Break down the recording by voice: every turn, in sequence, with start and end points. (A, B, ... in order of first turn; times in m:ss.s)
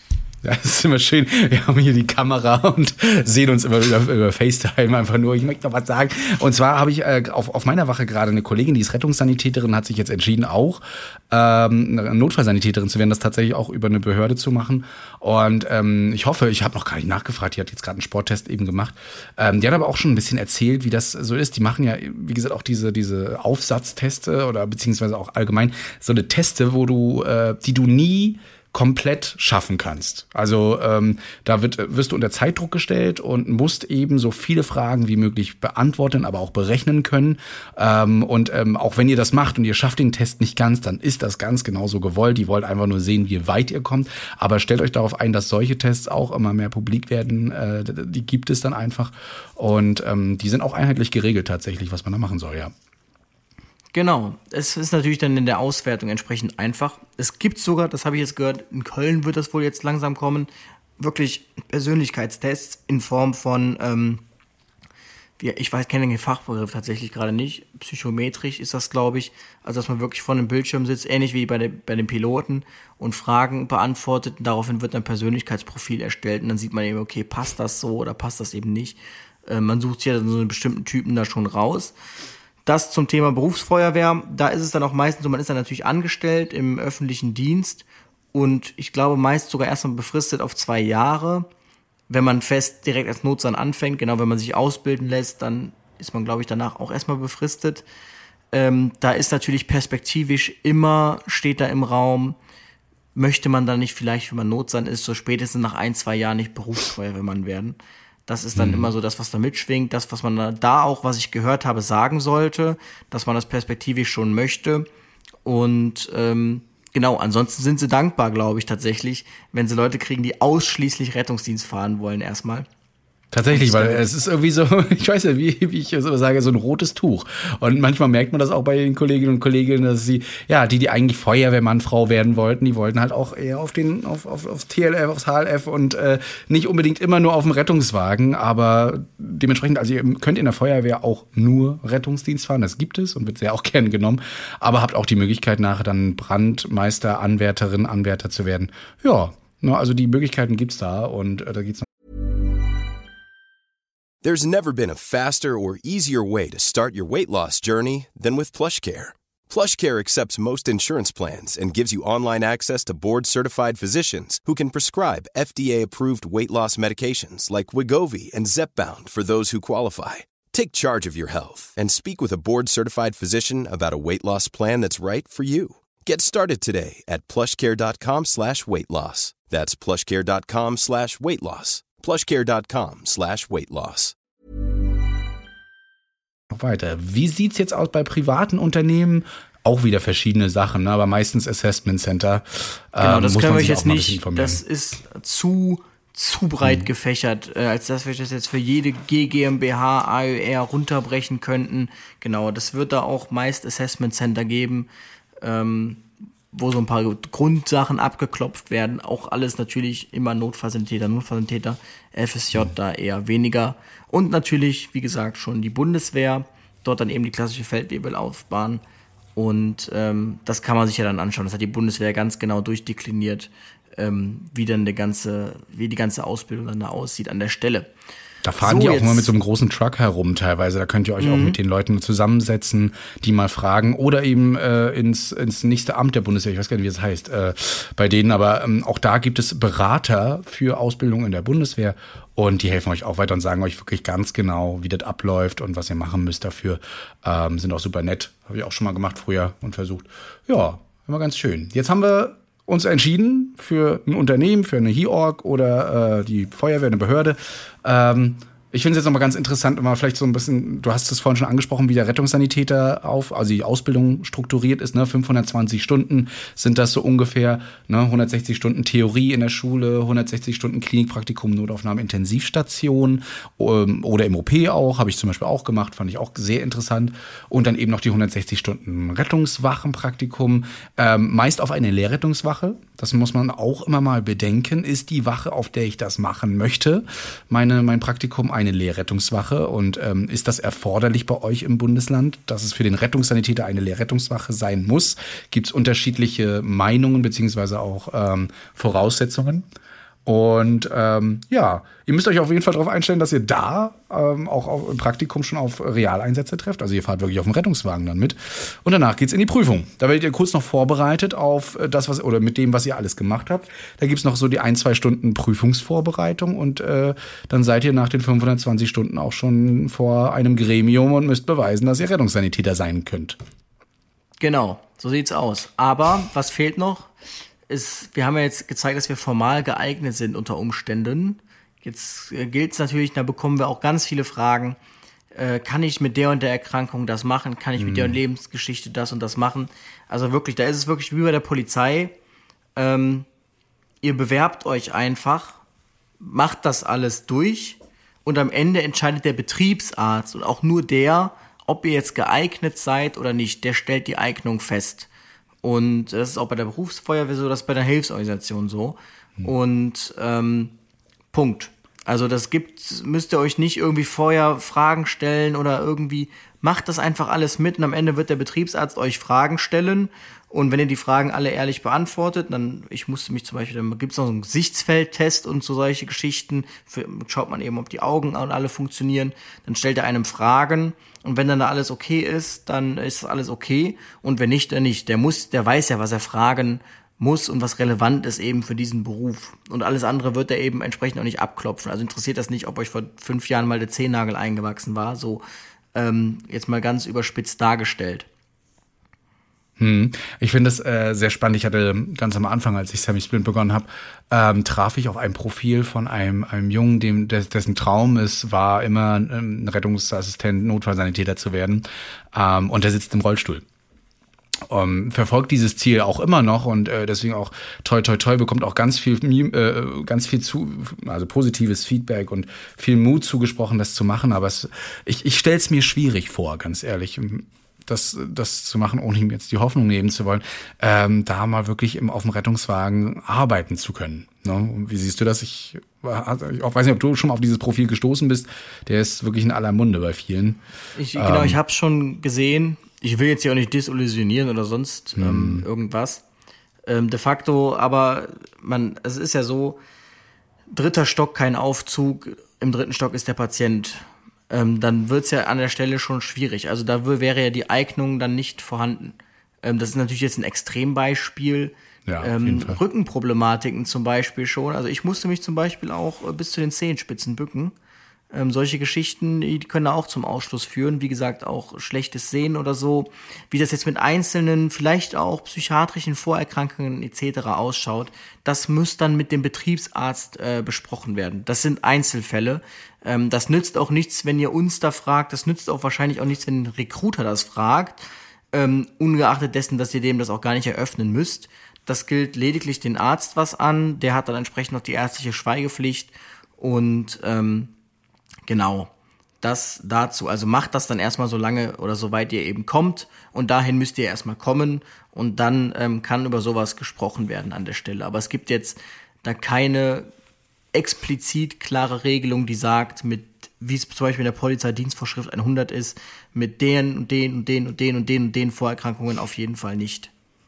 0:00.4-0:52.7 A
0:53.9-1:04.2 B
1:05.4-1:21.9 B
1:22.7-1:31.5 B
1:32.1-1:37.8 B
1:38.5-1:42.4 B
1:43.2-1:54.9 B
1:48.6-1:48.9 A
1:55.4-2:02.7 B
2:03.3-2:31.9 A
2:03.5-2:04.0 B
2:34.2-3:04.1 C
3:06.5-3:14.6 A
3:13.0-3:24.9 B
3:25.4-3:38.8 B
3:39.4-3:47.9 B
3:48.4-4:59.7 A
3:48.6-3:49.3 B
3:51.2-3:51.6 B
5:00.3-5:23.4 A
5:24.4-5:27.1 B
5:27.7-5:34.8 B
5:35.3-5:42.2 B
5:37.8-5:38.2 A
5:42.8-5:43.3 B
5:44.0-5:45.6 B
5:46.2-5:55.1 B
5:55.6-6:00.7 B
6:01.3-6:35.4 B
6:36.0-6:38.3 B
6:39.8-6:53.6 A
6:54.7-7:20.6 A
7:21.0-7:26.2 B
7:21.2-7:21.6 A
7:25.2-7:25.6 A
7:26.9-7:29.8 B
7:30.7-7:47.8 B
7:42.1-7:42.8 A
7:48.3-8:08.0 B
8:08.5-8:17.7 B
8:18.5-8:18.9 B
8:19.4-8:30.1 B
8:30.7-8:40.1 B